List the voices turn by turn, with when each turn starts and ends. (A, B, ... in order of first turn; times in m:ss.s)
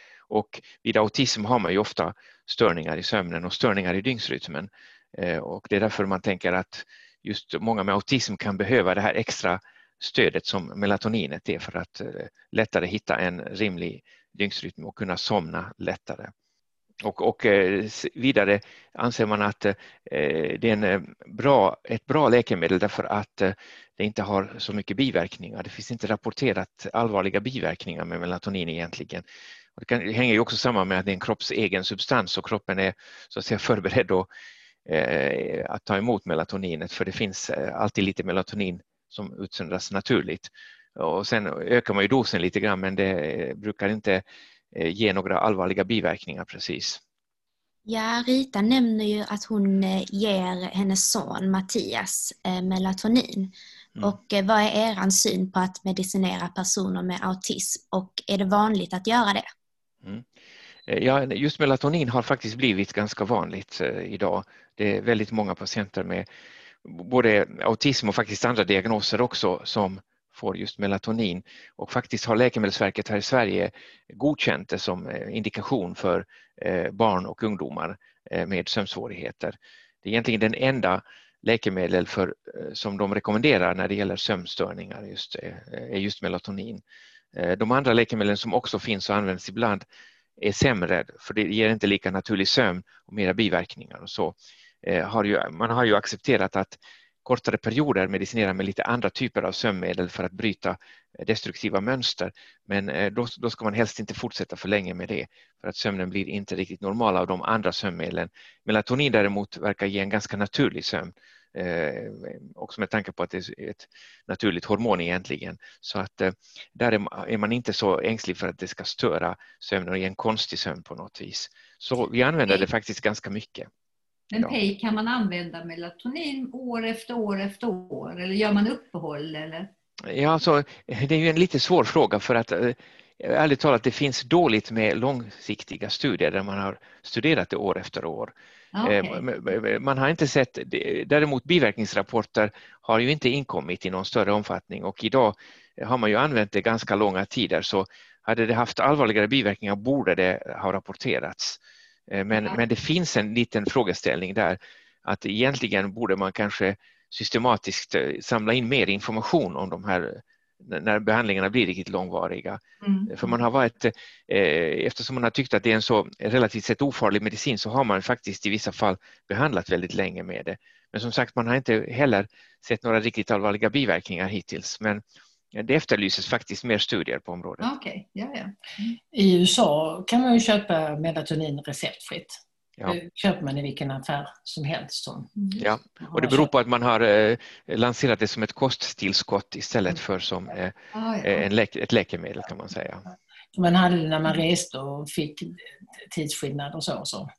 0:00.3-0:16.3 A
0:17.0-0:29.2 A
0:29.8-0:34.3 A
0:34.8-0:47.0 A
0:47.9-0:59.5 B
1:00.0-1:00.3 A
1:00.9-1:06.2 A
1:06.8-1:26.8 A
1:27.3-1:29.8 A
1:30.4-2:03.7 A
2:04.3-2:09.7 C
2:10.1-2:18.3 A
2:18.7-2:19.2 C
2:18.8-2:31.6 A
2:32.1-2:55.0 A
2:32.3-2:32.6 C
2:42.8-2:43.4 C
2:55.5-2:57.7 A
2:57.6-2:58.5 C
2:59.1-3:05.3 D
3:05.4-3:05.7 C
3:05.6-3:13.0 A
3:06.1-3:06.5 D
3:10.9-3:11.4 C
3:13.5-3:17.3 D